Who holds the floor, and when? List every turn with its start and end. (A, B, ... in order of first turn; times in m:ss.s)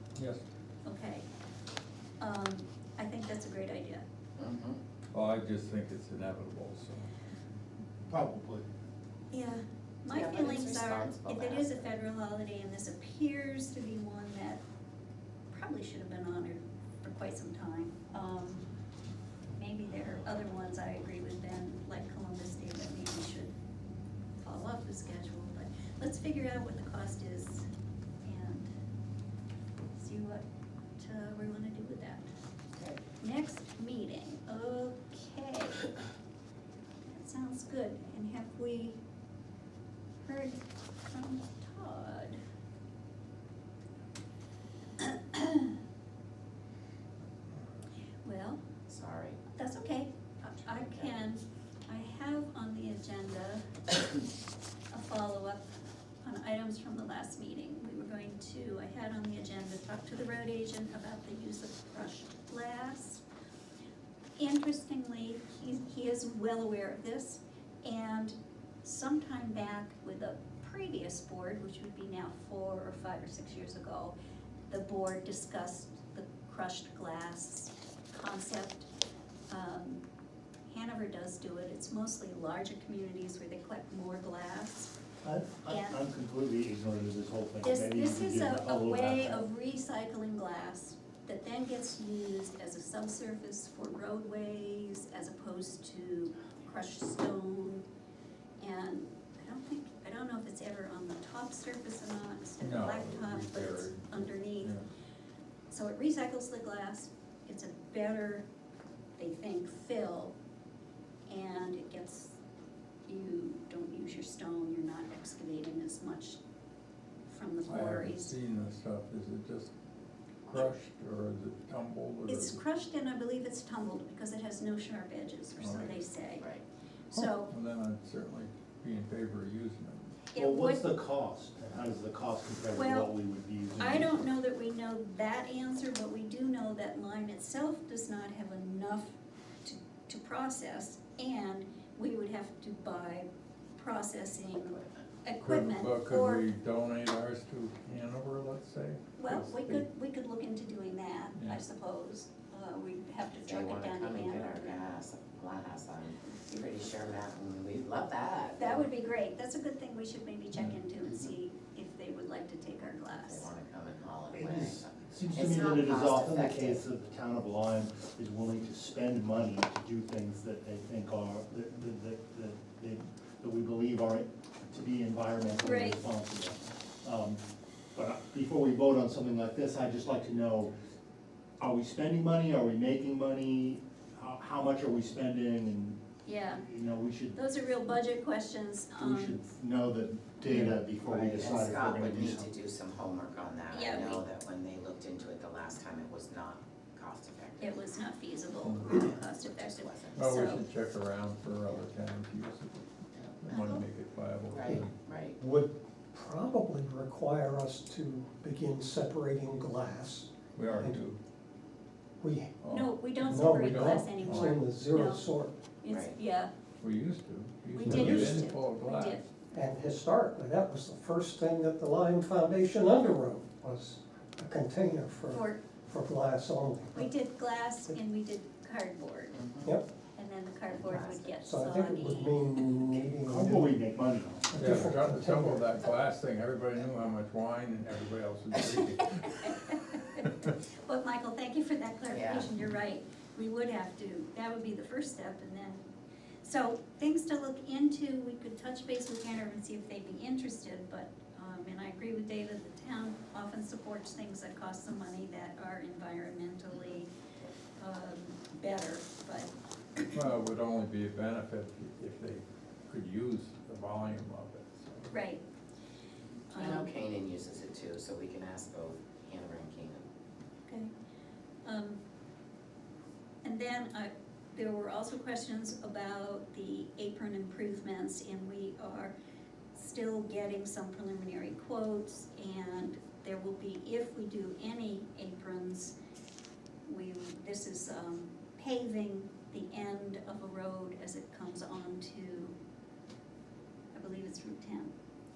0:00.2-0:00.4 A
0:00.8-0:01.2 B
0:02.2-0:04.0 B
0:04.4-0:04.8 C
0:05.1-0:07.1 A
0:08.1-0:08.7 D
0:09.3-0:14.6 B
0:10.1-0:11.9 C
0:15.5-0:18.6 B
0:19.6-0:23.5 B
0:24.4-0:27.7 B
0:28.2-0:28.7 B
0:30.0-0:30.4 B
0:31.0-0:32.3 B
0:33.2-0:35.9 B
0:37.0-0:39.0 B
0:40.2-0:42.4 B
0:45.0-0:45.7 B
0:48.2-0:48.6 B
0:48.9-0:49.4 C
0:49.5-0:53.8 B
0:50.6-0:51.2 C
0:54.9-0:55.6 B
0:56.2-1:03.2 B
1:04.4-1:14.1 B
1:14.7-1:18.9 B
1:19.5-1:20.0 B
1:20.7-1:24.9 B
1:25.2-1:29.5 D
1:25.7-1:26.0 B
1:27.6-1:37.8 B
1:38.6-1:44.7 B
1:42.6-1:44.8 A
1:45.7-1:48.4 B
1:49.2-1:50.3 B
1:51.3-1:52.4 B
1:53.1-1:56.4 B
1:57.3-1:58.3 B
1:57.7-1:59.7 A
2:00.5-2:02.6 A
2:02.3-2:06.5 B
2:05.6-2:06.0 A
2:07.1-2:07.5 B
2:07.2-2:10.3 A
2:10.3-2:10.9 B
2:10.3-2:14.2 D
2:12.7-2:13.1 B
2:13.8-2:26.4 B
2:25.4-2:29.9 A
2:29.2-2:35.0 B
2:33.4-2:38.9 C
2:38.6-2:43.5 B
2:43.2-2:46.8 C
2:44.3-2:57.4 D
2:55.6-2:56.0 B
2:58.0-3:00.7 D
3:01.6-3:06.0 D
3:06.2-3:06.6 B
3:06.6-3:07.4 D
3:07.4-3:09.4 B
3:09.0-3:12.5 D
3:10.5-3:10.8 A
3:11.1-3:17.8 C
3:13.7-3:14.2 B
3:17.6-3:20.6 B
3:18.6-3:19.1 A
3:18.9-3:20.6 C
3:20.2-3:22.9 A
3:23.4-3:24.9 A
3:23.5-3:23.8 C
3:23.5-3:23.8 B
3:24.5-3:25.4 C
3:25.4-3:31.0 E
3:30.6-3:31.2 A
3:32.2-3:32.5 E
3:32.6-3:34.6 A
3:32.7-3:35.2 B
3:33.2-3:35.6 E
3:35.8-3:36.5 B
3:35.9-3:36.2 C
3:36.8-3:39.2 A
3:37.7-3:39.2 B
3:37.9-3:38.4 E
3:39.5-3:47.1 E
3:45.3-3:45.6 B
3:46.9-3:49.4 B
3:49.4-3:49.7 C
3:50.2-3:52.6 B
3:50.7-3:51.3 C
3:51.4-3:53.8 E
3:53.2-3:54.6 D
3:54.5-3:55.6 E
3:54.6-3:59.5 A
3:59.1-4:05.8 B
4:00.2-4:00.5 A
4:02.1-4:02.5 C
4:06.4-4:17.1 B
4:17.8-4:20.1 B
4:20.1-4:25.1 A
4:25.1-4:25.4 B
4:26.5-4:26.9 B
4:26.5-4:30.0 C
4:31.6-4:32.0 B
4:33.4-4:39.1 B
4:39.7-4:46.0 B
4:46.9-4:52.6 B
4:54.0-4:54.9 B